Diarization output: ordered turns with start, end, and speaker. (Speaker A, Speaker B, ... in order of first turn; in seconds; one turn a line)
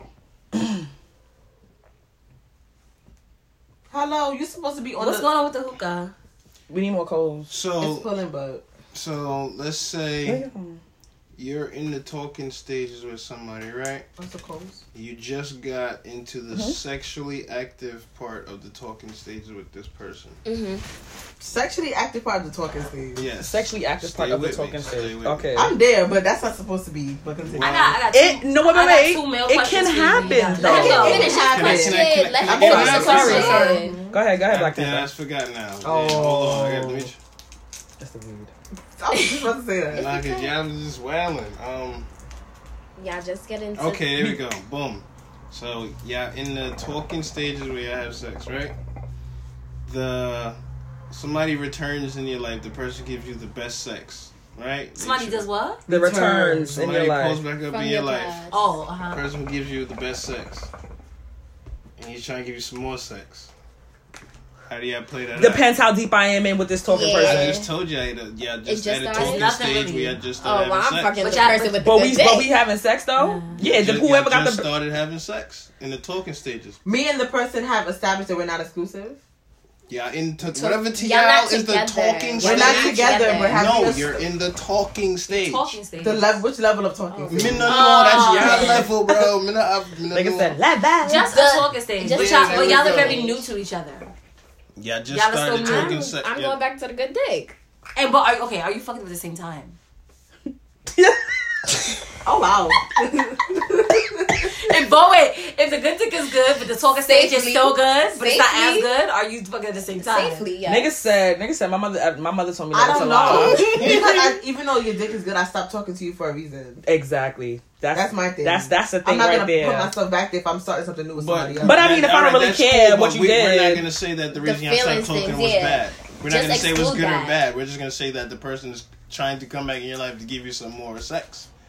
Speaker A: 3.9-5.3
Speaker B: 5.0-6.1
Speaker C: 6.7-7.5
Speaker D: 7.5-8.1
Speaker A: 7.8-8.6
Speaker D: 8.9-10.4
Speaker C: 10.3-10.8
Speaker D: 11.4-14.1
Speaker A: 14.2-14.8
Speaker D: 14.9-20.4
Speaker C: 16.5-16.8
Speaker E: 20.4-20.8
Speaker A: 21.4-23.3
Speaker D: 23.1-25.6
Speaker C: 23.4-25.8
Speaker A: 25.6-27.9
Speaker D: 27.4-28.0
Speaker B: 27.6-31.6
Speaker C: 28.1-31.2
Speaker A: 30.6-34.1
Speaker E: 30.6-34.0
Speaker D: 30.6-33.8
Speaker C: 32.5-35.1
Speaker B: 33.0-34.0
Speaker D: 34.4-37.2
Speaker C: 35.9-37.1
Speaker A: 35.9-36.4
Speaker C: 38.0-38.5
Speaker A: 39.0-40.1
Speaker D: 39.9-42.1
Speaker E: 39.9-40.5
Speaker E: 43.0-44.2
Speaker D: 43.8-48.8
Speaker D: 49.9-50.6
Speaker D: 51.1-55.5
Speaker B: 55.0-55.8
Speaker A: 55.9-56.8
Speaker C: 55.9-57.4
Speaker D: 56.7-58.5
Speaker E: 57.6-58.7
Speaker B: 58.5-59.2
Speaker D: 59.1-60.7
Speaker D: 62.0-63.5
Speaker D: 64.7-65.7
Speaker C: 65.4-67.6
Speaker E: 66.9-67.7
Speaker D: 67.1-71.6
Speaker E: 68.7-69.5
Speaker B: 69.1-70.2
Speaker E: 70.4-72.5
Speaker B: 71.2-71.8
Speaker C: 71.8-74.7
Speaker B: 73.2-73.6
Speaker D: 73.6-76.8
Speaker A: 76.8-79.2
Speaker D: 79.9-85.8
Speaker E: 80.4-83.8
Speaker A: 82.4-84.2
Speaker B: 85.3-86.4
Speaker A: 86.0-87.8
Speaker E: 87.1-88.8
Speaker D: 87.3-90.6
Speaker B: 87.7-88.9
Speaker C: 88.5-88.8
Speaker C: 90.1-91.3
Speaker B: 91.0-94.1
Speaker E: 91.1-93.5
Speaker D: 92.0-93.3
Speaker D: 94.8-96.6
Speaker B: 95.1-96.0
Speaker E: 95.6-97.6
Speaker B: 98.0-99.8
Speaker C: 100.9-102.0
Speaker A: 102.2-104.5
Speaker B: 104.5-110.5
Speaker E: 107.0-108.9
Speaker E: 110.0-110.9
Speaker C: 110.7-114.3
Speaker A: 112.7-116.8
Speaker D: 113.3-114.1
Speaker C: 116.8-119.9
Speaker A: 117.9-122.0
Speaker D: 121.2-131.5
Speaker C: 121.6-123.9
Speaker E: 124.3-127.4